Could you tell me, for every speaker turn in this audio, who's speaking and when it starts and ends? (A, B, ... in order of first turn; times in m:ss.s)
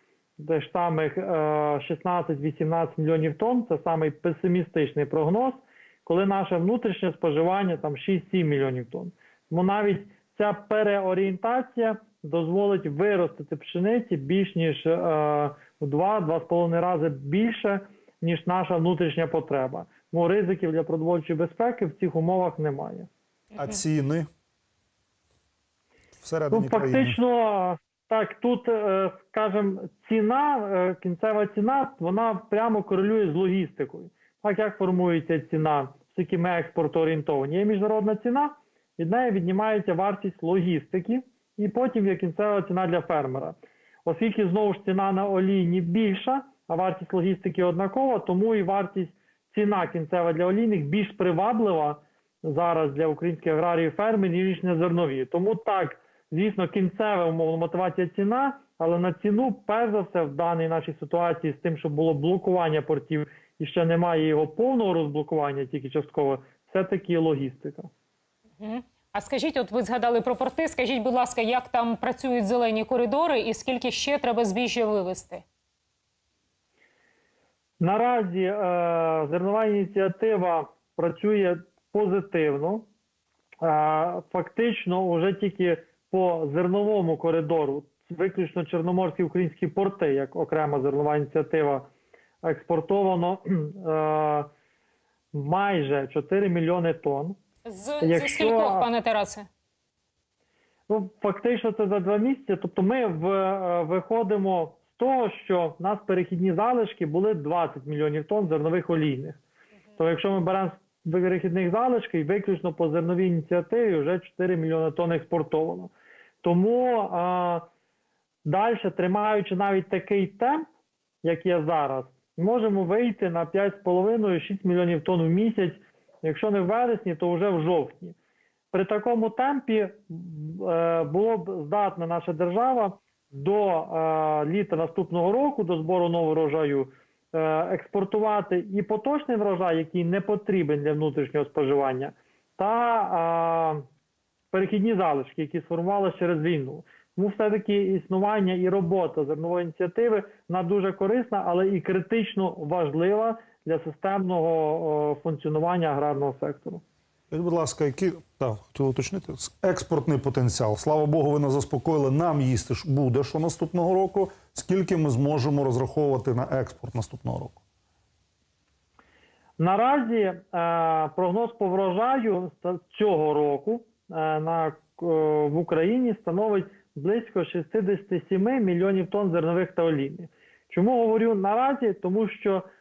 0:00.4-0:23.1 A
0:23.6-0:24.3 B
0:26.2-0:27.2 B
0:26.5-1:07.9 A
1:08.6-1:15.4 C
1:17.8-1:22.8 A
1:23.6-1:31.9 A
1:32.4-1:34.5 A
1:35.3-1:37.4 A
1:37.6-1:39.5 C
1:38.0-1:38.9 A
1:40.9-1:49.4 A
1:50.0-1:55.9 A
1:56.4-1:57.6 A
1:58.4-2:00.7 A
2:01.2-2:08.1 A
2:08.7-2:23.8 A
2:24.5-2:36.8 A
2:37.3-2:47.6 B
2:49.6-3:02.6 A